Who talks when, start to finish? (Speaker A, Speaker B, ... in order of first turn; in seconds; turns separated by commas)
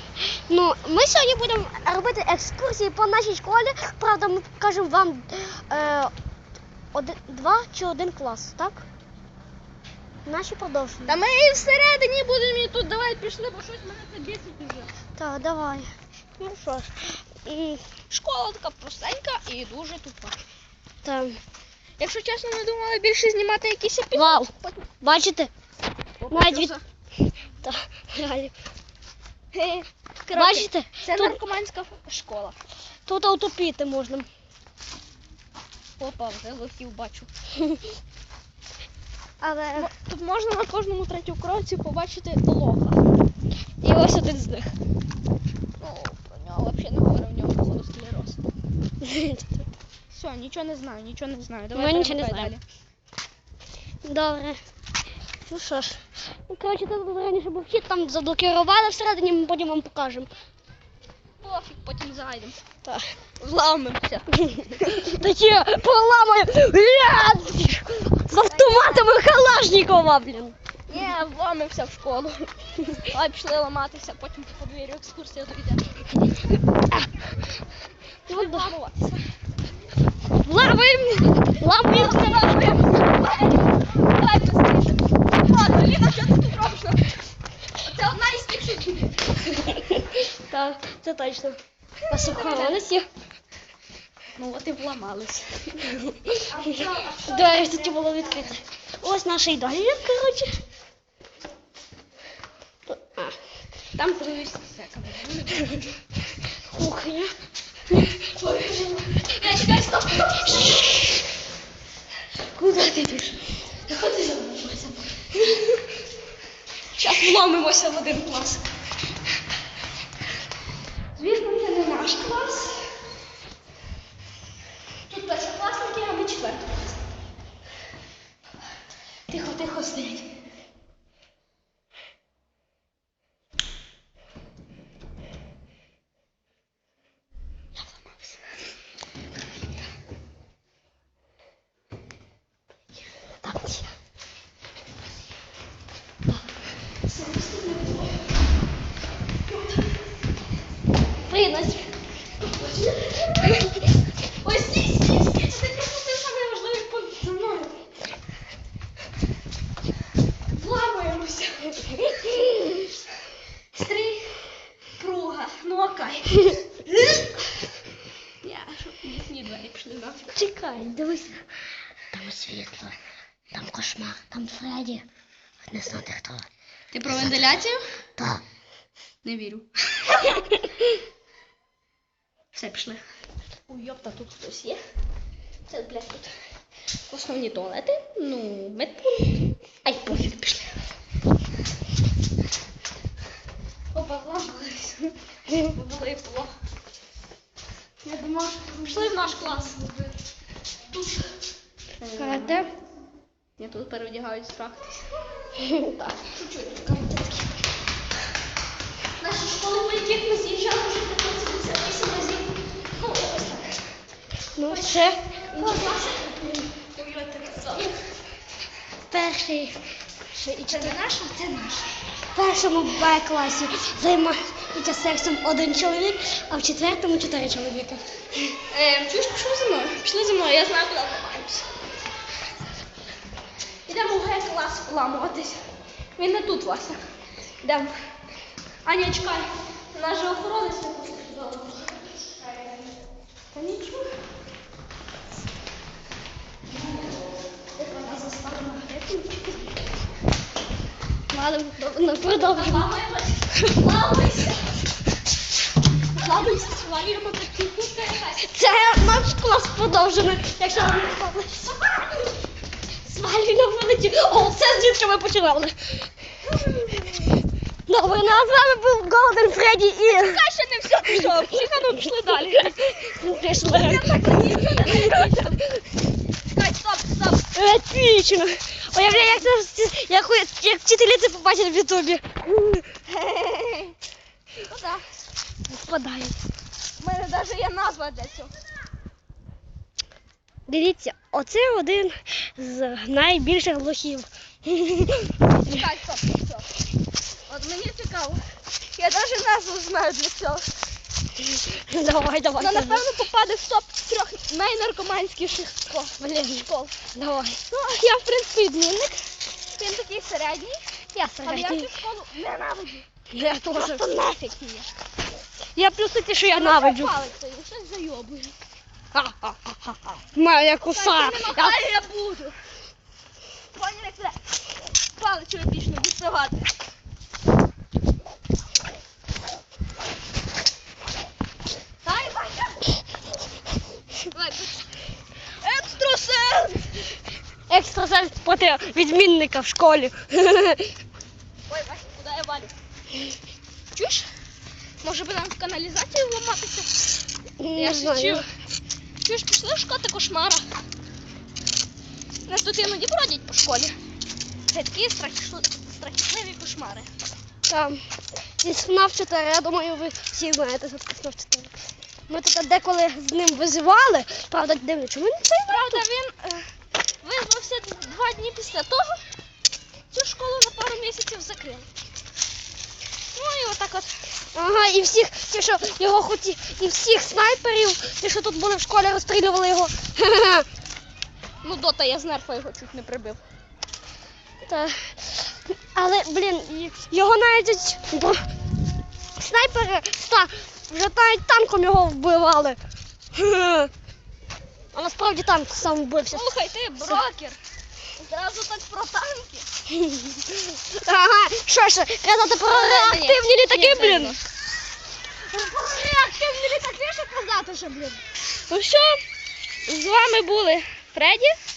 Speaker A: 0.2-6.1, Speaker A: 6.9-8.8, Speaker A: 10.2-11.2, Speaker B: 11.1-14.9, Speaker A: 15.2-17.8, Speaker B: 18.1-20.4, Speaker A: 21.0-21.4, Speaker B: 22.0-24.9, Speaker A: 24.1-25.5, Speaker B: 26.2-26.8, Speaker A: 26.3-26.8, Speaker A: 27.6-28.5, Speaker B: 29.5-32.6, Speaker A: 30.3-31.4, Speaker A: 33.1-34.3, Speaker B: 36.0-37.3, Speaker A: 39.4-39.9, Speaker B: 39.8-43.0, Speaker A: 43.8-44.7, Speaker B: 45.8-48.4, Speaker A: 49.0-49.7, Speaker B: 50.1-52.6, Speaker A: 51.8-52.5, Speaker A: 54.0-54.6, Speaker A: 55.4-60.3, Speaker B: 61.4-62.6, Speaker B: 63.4-65.2, Speaker A: 65.0-70.6, Speaker B: 68.3-69.1, Speaker B: 70.9-76.4, Speaker B: 78.3-79.2, Speaker A: 78.3-78.7, Speaker A: 80.4-82.5, Speaker B: 81.8-87.1, Speaker B: 87.8-89.7, Speaker A: 89.8-93.1, Speaker B: 92.1-92.8, Speaker B: 94.4-98.4, Speaker A: 97.2-100.6, Speaker A: 102.9-103.4, Speaker B: 103.9-105.9, Speaker A: 106.7-107.3, Speaker B: 108.2-111.0, Speaker B: 112.5-115.6, Speaker B: 117.0-118.7, Speaker B: 121.2-122.9, Speaker B: 125.1-127.1, Speaker B: 129.3-130.3, Speaker B: 137.8-138.3, Speaker A: 143.4-143.9, Speaker B: 147.1-148.2, Speaker B: 149.5-149.9, Speaker B: 151.3-153.6, Speaker B: 154.4-157.7, Speaker B: 160.5-162.5, Speaker B: 163.7-164.4, Speaker B: 165.0-167.4, Speaker B: 168.4-170.3, Speaker A: 170.3-171.4, Speaker A: 172.1-172.9, Speaker A: 173.5-175.1, Speaker A: 175.7-176.5, Speaker B: 176.9-177.8, Speaker A: 177.1-177.3, Speaker A: 178.2-178.4, Speaker B: 179.2-180.4, Speaker B: 182.5-183.0, Speaker B: 183.7-184.8, Speaker B: 185.7-186.3, Speaker B: 187.1-190.7, Speaker B: 193.9-196.5, Speaker B: 198.0-200.1, Speaker B: 200.9-201.2, Speaker B: 202.0-202.6, Speaker A: 202.2-202.7, Speaker B: 203.6-207.5, Speaker B: 209.2-213.8, Speaker A: 214.6-215.9, Speaker B: 214.7-218.0, Speaker A: 219.1-219.8, Speaker A: 220.3-220.9, Speaker B: 220.7-222.0, Speaker A: 222.3-228.5, Speaker B: 228.7-231.7, Speaker B: 233.9-235.6, Speaker B: 236.2-237.0, Speaker B: 237.6-237.9, Speaker B: 238.8-242.9, Speaker B: 243.5-244.1, Speaker B: 246.7-247.2, Speaker B: 247.8-249.7, Speaker A: 251.3-252.9, Speaker B: 252.4-254.7, Speaker B: 256.1-258.6, Speaker A: 258.4-262.0, Speaker A: 263.0-265.8, Speaker B: 266.5-267.4, Speaker A: 267.9-270.4, Speaker B: 270.1-275.6, Speaker A: 273.0-275.5, Speaker B: 276.5-277.5, Speaker A: 277.5-282.9, Speaker B: 279.0-279.4, Speaker B: 283.1-283.9, Speaker B: 284.6-285.0, Speaker A: 285.7-286.4, Speaker B: 287.0-288.5, Speaker A: 290.7-295.3, Speaker B: 295.6-296.7, Speaker B: 297.5-298.4, Speaker B: 298.9-300.7, Speaker A: 301.4-303.0, Speaker B: 302.6-306.9, Speaker A: 306.2-307.6, Speaker B: 307.7-309.2, Speaker B: 309.8-310.8, Speaker A: 311.1-311.9, Speaker B: 311.4-313.1, Speaker A: 313.3-314.1, Speaker B: 313.7-314.9, Speaker A: 315.8-317.2, Speaker B: 316.5-318.6, Speaker A: 319.1-321.8, Speaker B: 320.9-322.6, Speaker B: 323.7-324.4, Speaker B: 325.1-326.7, Speaker B: 332.0-332.9, Speaker B: 334.3-334.9, Speaker B: 335.6-337.1, Speaker A: 337.7-340.9, Speaker B: 341.7-342.7, Speaker B: 343.9-344.3, Speaker B: 345.0-347.0, Speaker A: 347.6-348.4, Speaker B: 347.7-348.4, Speaker B: 349.2-350.7, Speaker B: 352.5-353.9, Speaker B: 354.7-357.1, Speaker A: 357.7-358.0, Speaker A: 358.6-361.7, Speaker A: 362.3-366.0, Speaker B: 365.7-366.7, Speaker B: 367.2-369.2, Speaker B: 370.1-371.9, Speaker B: 373.3-374.1, Speaker A: 374.5-380.7, Speaker B: 381.6-383.4, Speaker A: 384.6-388.4, Speaker A: 389.4-392.8, Speaker A: 393.3-393.9, Speaker A: 394.9-396.5, Speaker B: 396.3-397.6, Speaker B: 398.2-399.7, Speaker A: 400.0-404.4, Speaker B: 402.6-404.4, Speaker B: 405.5-409.2, Speaker B: 409.9-411.6